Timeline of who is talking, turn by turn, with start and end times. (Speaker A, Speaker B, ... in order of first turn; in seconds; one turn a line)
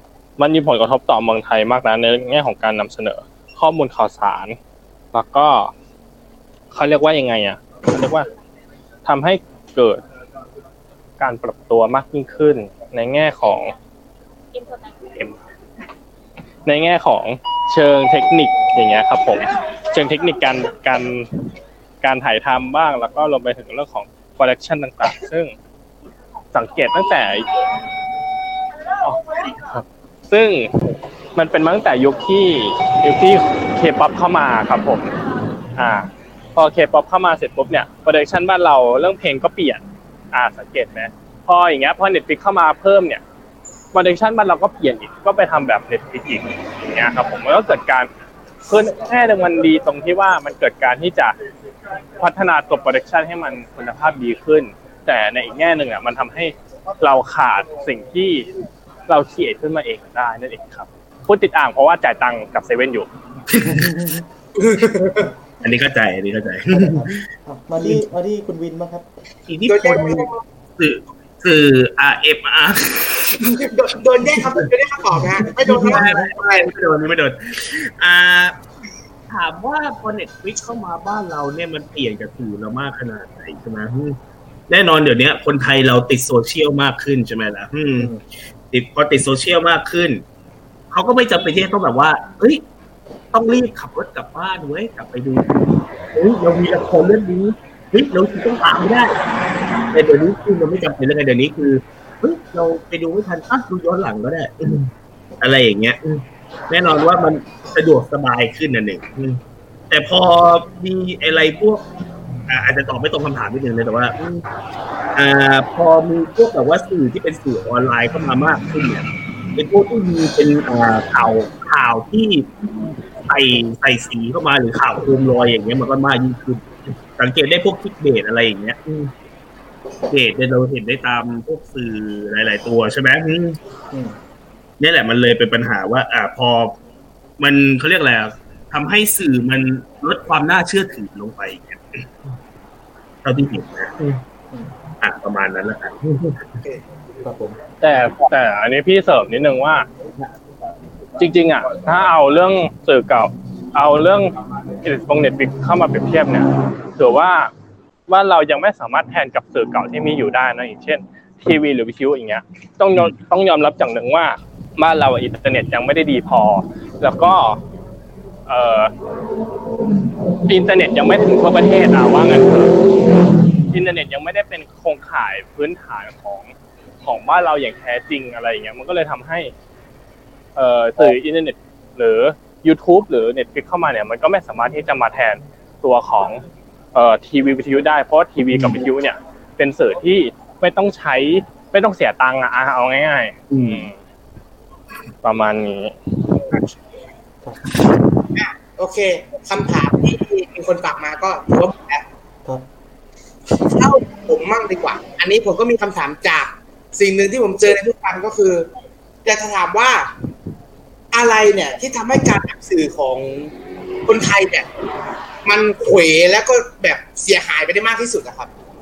Speaker A: 0.4-4.6
Speaker A: 5.1-5.7
Speaker A: 6.7-8.3
Speaker A: 9.0-10.0
Speaker A: 11.2-13.7
Speaker A: 16.6-21.3
Speaker A: 22.0-25.5
Speaker A: 26.5-27.5
Speaker A: 29.0-35.1
Speaker A: 35.8-43.2
Speaker A: 43.9-48.1
Speaker A: 48.7-51.4
Speaker A: 52.2-58.5
Speaker A: 59.1-63.1
Speaker B: 63.5-63.9
Speaker C: 63.7-64.2
Speaker D: 64.6-65.3
Speaker B: 65.6-67.2
Speaker C: 66.7-69.1
Speaker B: 69.5-73.6
Speaker D: 69.7-70.4
Speaker D: 73.4-76.7
Speaker B: 74.2-74.6
Speaker B: 75.2-78.5
Speaker C: 75.9-76.2
Speaker B: 79.3-84.2
Speaker B: 84.7-88.1
Speaker B: 88.7-90.2
Speaker B: 90.9-92.6
Speaker B: 93.3-95.5
Speaker B: 96.1-99.2
Speaker B: 99.9-109.4
Speaker B: 109.9-111.8
Speaker B: 112.5-114.4
Speaker B: 115.1-122.5
Speaker B: 123.2-129.1
Speaker B: 130.1-133.6
Speaker C: 133.9-134.2
Speaker B: 134.8-136.8
Speaker B: 137.4-142.1
Speaker B: 143.2-144.2
Speaker B: 145.0-146.6
Speaker C: 147.2-147.6
Speaker A: 147.8-149.9
Speaker A: 151.2-157.5
Speaker A: 158.1-167.6
Speaker A: 168.5-168.9
Speaker A: 170.5-172.7
Speaker A: 173.7-179.5
Speaker A: 180.6-186.4
Speaker A: 186.9-194.0
Speaker B: 188.5-188.8
Speaker B: 193.5-193.9
Speaker A: 195.2-195.9
Speaker D: 198.3-202.0
Speaker D: 203.6-208.7
Speaker D: 209.2-210.1
Speaker D: 211.1-213.5
Speaker D: 214.1-214.7
Speaker D: 215.4-218.5